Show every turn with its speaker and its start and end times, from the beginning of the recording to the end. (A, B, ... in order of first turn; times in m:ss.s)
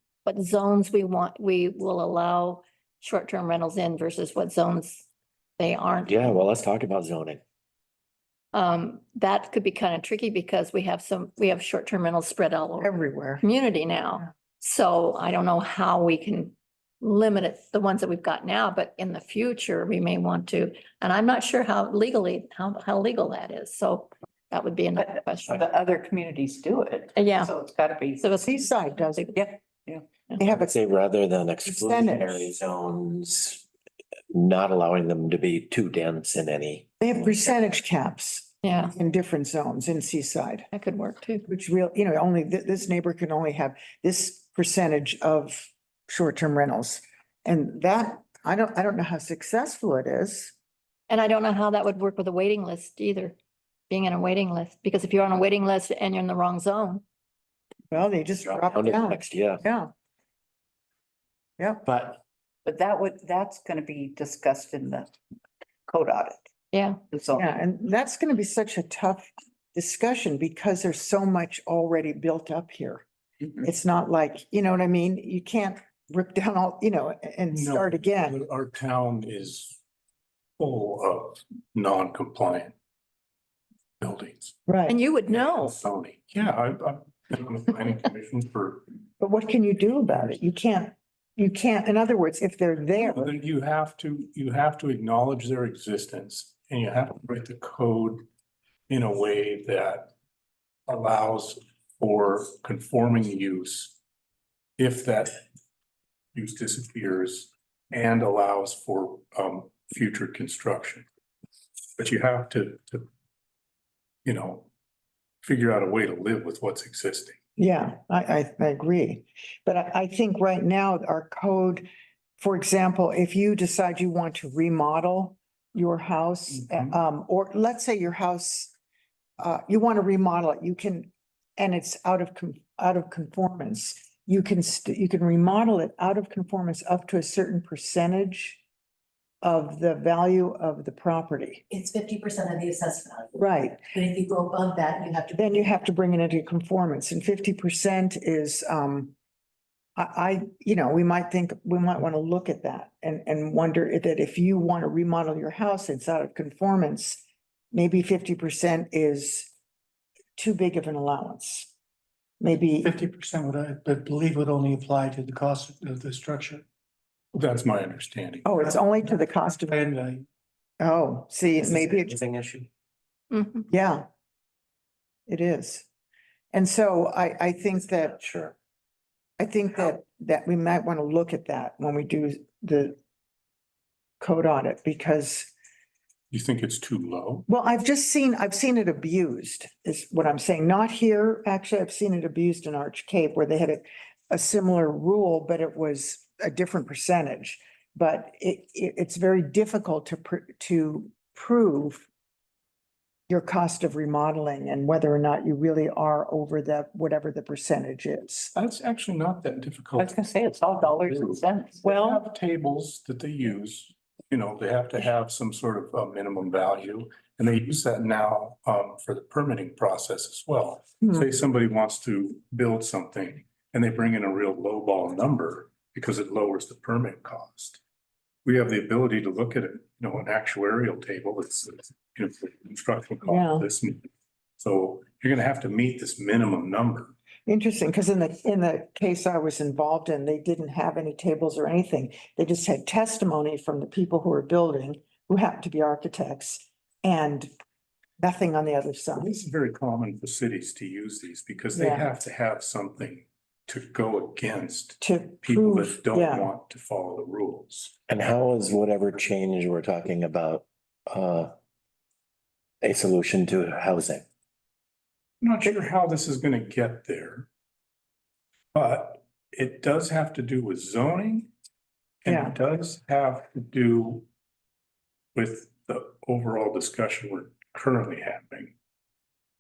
0:00.2-0:05.1 A
0:05.6-0:06.4 A
0:06.0-0:07.4 B
0:08.5-0:25.6 A
0:12.8-0:13.4 C
0:25.0-0:28.3 D
0:27.2-0:27.5 A
0:28.2-0:29.3 A
0:28.4-0:29.3 C
0:29.3-0:30.1 D
0:30.4-0:30.8 C
0:30.4-0:33.6 B
0:31.6-0:32.5 C
0:34.3-0:36.9 B
0:37.0-0:40.7 C
0:38.6-0:38.9 A
0:40.7-0:41.5 A
0:41.5-0:50.5 C
0:51.1-0:53.4 A
0:53.9-0:57.0 A
0:57.9-0:59.9 C
0:58.4-0:59.6 B
1:01.6-1:01.8 C
1:01.9-1:02.2 B
1:02.6-1:05.1 D
1:05.9-1:06.4 D
1:06.7-1:07.0 A
1:07.1-1:07.4 D
1:07.3-1:13.0 C
1:13.6-1:18.4 C
1:17.5-1:19.8 E
1:20.6-1:22.7 E
1:24.0-1:24.6 E
1:24.7-1:25.0 C
1:24.9-1:25.8 A
1:25.3-1:28.9 E
1:29.2-1:33.3 C
1:33.0-1:38.3 E
1:38.9-1:40.1 E
1:40.9-1:44.0 E
1:44.8-1:45.4 E
1:46.4-1:51.1 E
1:52.0-1:53.1 E
1:54.2-1:54.7 E
1:55.4-1:57.4 E
1:57.6-2:08.7 C
2:06.5-2:07.0 E
2:09.4-2:18.6 C
2:19.4-2:21.6 C
2:21.7-2:23.4 F
2:23.4-2:23.8 C
2:23.9-2:25.7 F
2:25.3-2:29.1 C
2:30.0-2:39.5 C
2:40.4-2:41.7 C
2:42.4-2:42.9 C
2:42.8-2:46.6 G
2:47.3-2:48.8 E
2:48.4-2:49.8 C
2:48.7-2:50.2 G
2:50.8-2:52.2 C
2:51.6-2:52.7 B
2:53.3-2:53.7 A
2:53.7-2:54.1 C
2:55.3-2:55.9 C
2:56.5-2:58.2 C
2:58.1-2:58.6 B
2:59.4-3:03.0 C
3:04.2-3:05.5 C
3:06.3-3:07.4 E
3:07.5-3:22.1 C
3:23.3-3:28.5 C
3:28.6-3:30.2 E
3:30.0-3:31.8 D
3:30.8-3:47.8 E
3:31.9-3:32.2 C
3:48.4-3:54.1 E
3:53.3-3:53.7 C
3:54.6-3:57.2 E
3:57.5-4:07.5 C
4:08.2-4:09.3 C
4:09.2-4:18.0 E
4:11.7-4:12.1 C
4:15.0-4:16.5 C
4:18.1-4:21.5 B
4:22.8-4:24.2 B
4:25.4-4:27.5 E
4:28.7-4:31.5 E
4:32.2-4:34.3 E
4:32.3-4:32.5 C
4:35.4-4:38.7 E